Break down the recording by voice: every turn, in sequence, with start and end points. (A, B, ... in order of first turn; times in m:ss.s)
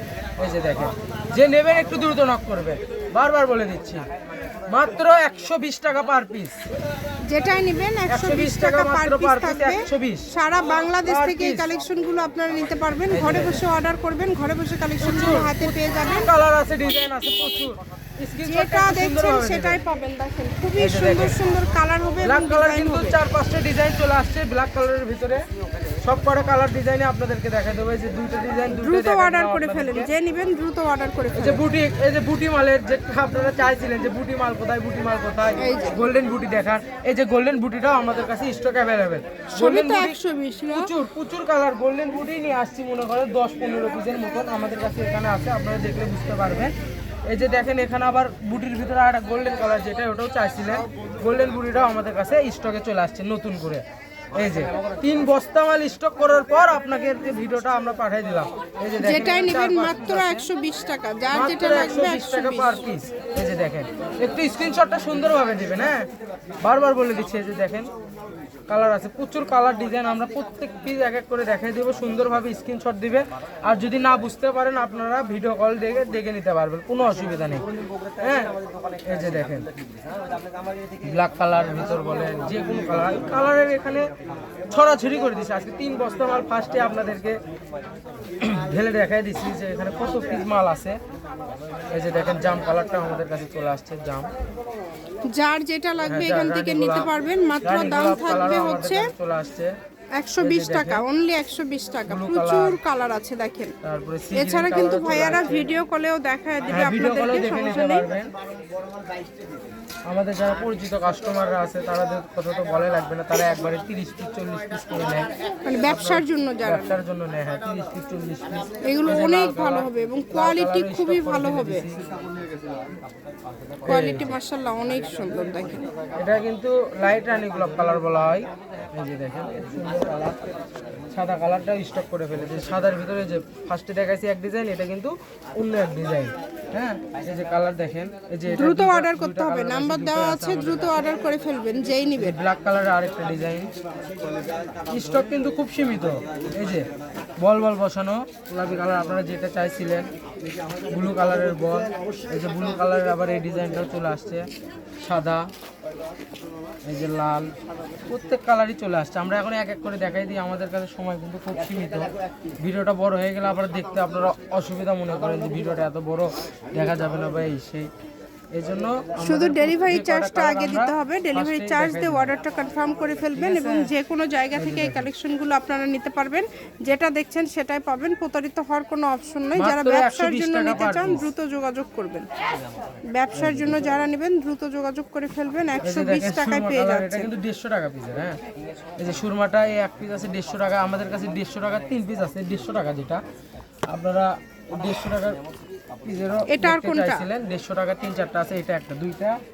0:00.4-0:04.0 A
0:04.7-0:06.6 A
0:07.2-0:16.3 B
0:08.1-0:10.3 A
0:11.1-0:11.7 A
0:13.1-0:13.6 A
0:15.0-0:19.8 A
0:18.4-0:23.2 B
0:20.8-0:21.4 A
0:22.2-0:25.4 A
0:26.0-0:30.1 A
0:28.7-0:31.6 B
0:31.4-0:40.2 A
0:35.6-0:36.0 B
0:39.5-0:40.9 B
0:40.7-0:46.7 A
0:47.3-0:53.8 A
0:54.4-1:00.5 A
0:59.0-1:02.8 B
1:01.3-1:06.1 A
1:06.6-1:07.9 A
1:08.7-1:17.7 A
1:18.2-1:19.7 A
1:21.0-1:24.1 A
1:24.7-1:27.4 A
1:28.4-1:31.0 A
1:31.9-1:34.3 A
1:35.3-1:39.1 B
1:36.1-1:37.1 A
1:37.6-1:39.8 A
1:40.2-1:43.8 B
1:40.4-1:41.0 A
1:42.1-1:42.8 A
1:43.8-1:45.7 A
1:44.3-1:48.1 B
1:46.7-1:48.3 A
1:50.1-1:55.3 A
1:55.7-1:56.9 B
1:55.8-2:02.0 A
1:58.8-2:01.9 B
2:03.8-2:04.4 A
2:03.9-2:05.8 B
2:06.2-2:10.4 A
2:11.1-2:21.0 A
2:18.5-2:22.4 B
2:22.2-2:23.7 A
2:24.9-2:26.9 A
2:27.4-2:30.1 A
2:30.9-2:34.5 A
2:35.0-2:35.5 A
2:36.9-2:37.5 A
2:38.1-2:47.9 A
2:48.5-2:52.3 A
2:49.2-3:02.3 B
2:53.4-2:53.9 A
2:54.5-2:55.1 A
2:59.6-3:01.3 A
3:03.1-3:07.3 B
3:03.3-3:03.8 A
3:05.8-3:08.4 A
3:09.0-3:13.2 A
3:13.9-3:15.4 A
3:16.0-3:19.4 A
3:16.5-3:17.3 B